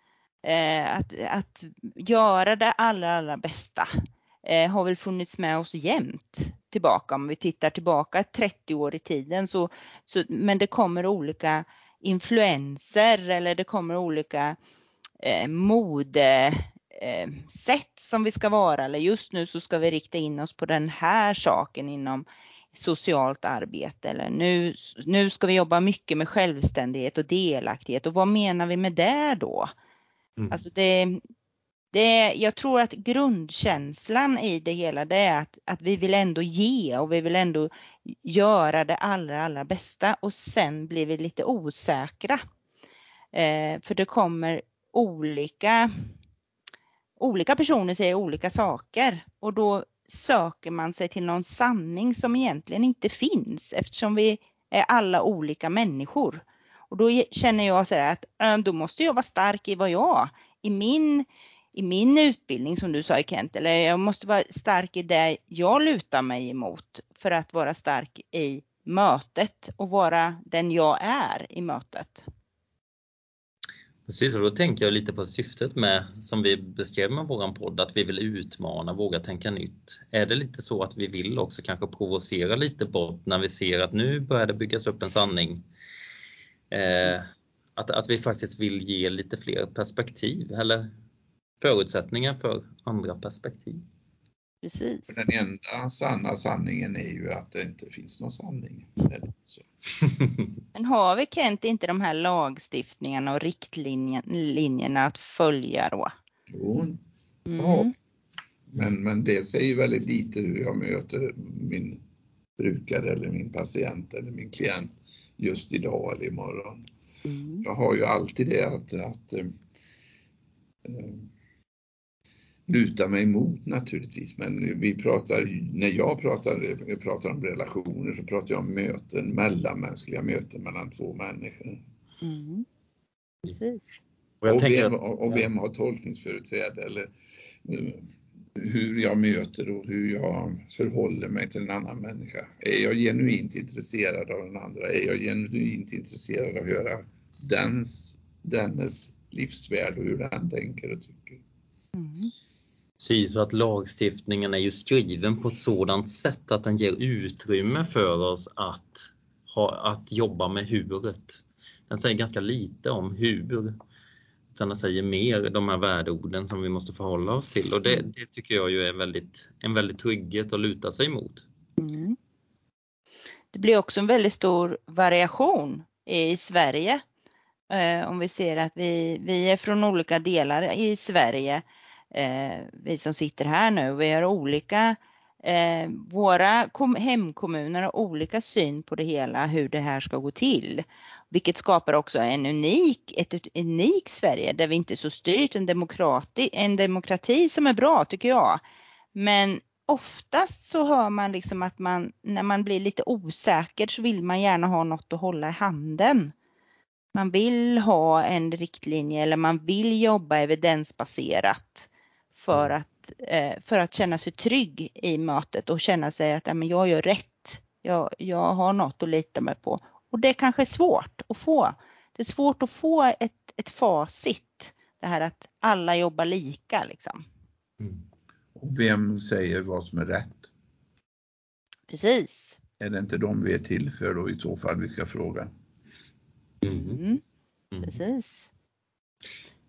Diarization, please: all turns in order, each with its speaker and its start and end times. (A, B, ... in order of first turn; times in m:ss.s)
0:00.4-0:03.9 A
0:04.4-0:14.6 A
0:15.2-0:29.7 A
0:30.5-0:31.2 A
0:31.9-0:42.4 A
0:43.3-0:46.1 A
0:47.2-1:12.2 A
1:14.1-1:25.7 B
1:26.7-1:30.9 B
1:31.6-1:33.8 B
1:34.6-1:35.3 A
1:35.1-1:39.7 C
1:40.8-1:46.2 A
1:46.5-1:47.0 C
1:47.5-1:47.9 A
1:47.6-1:47.9 C
1:48.7-1:52.0 C
1:52.6-1:56.8 C
1:57.3-1:57.6 A
1:57.6-1:59.5 C
2:00.8-2:01.3 C
2:02.7-2:11.8 C
2:12.2-2:12.6 A
2:13.5-2:14.0 A
2:14.4-2:15.5 B
2:14.5-2:17.1 C
2:17.6-2:31.4 C
2:32.0-2:32.3 A
2:33.0-2:43.8 B
2:44.5-2:51.5 B
2:51.8-2:52.2 A
2:53.5-2:57.0 A
2:57.7-3:18.6 A
3:19.1-3:26.3 A
3:27.1-3:47.2 A
3:48.6-3:50.5 C
3:51.9-3:52.6 A
3:52.8-3:55.5 C
3:56.6-3:57.0 B
3:56.6-3:57.2 A
3:57.8-3:58.5 A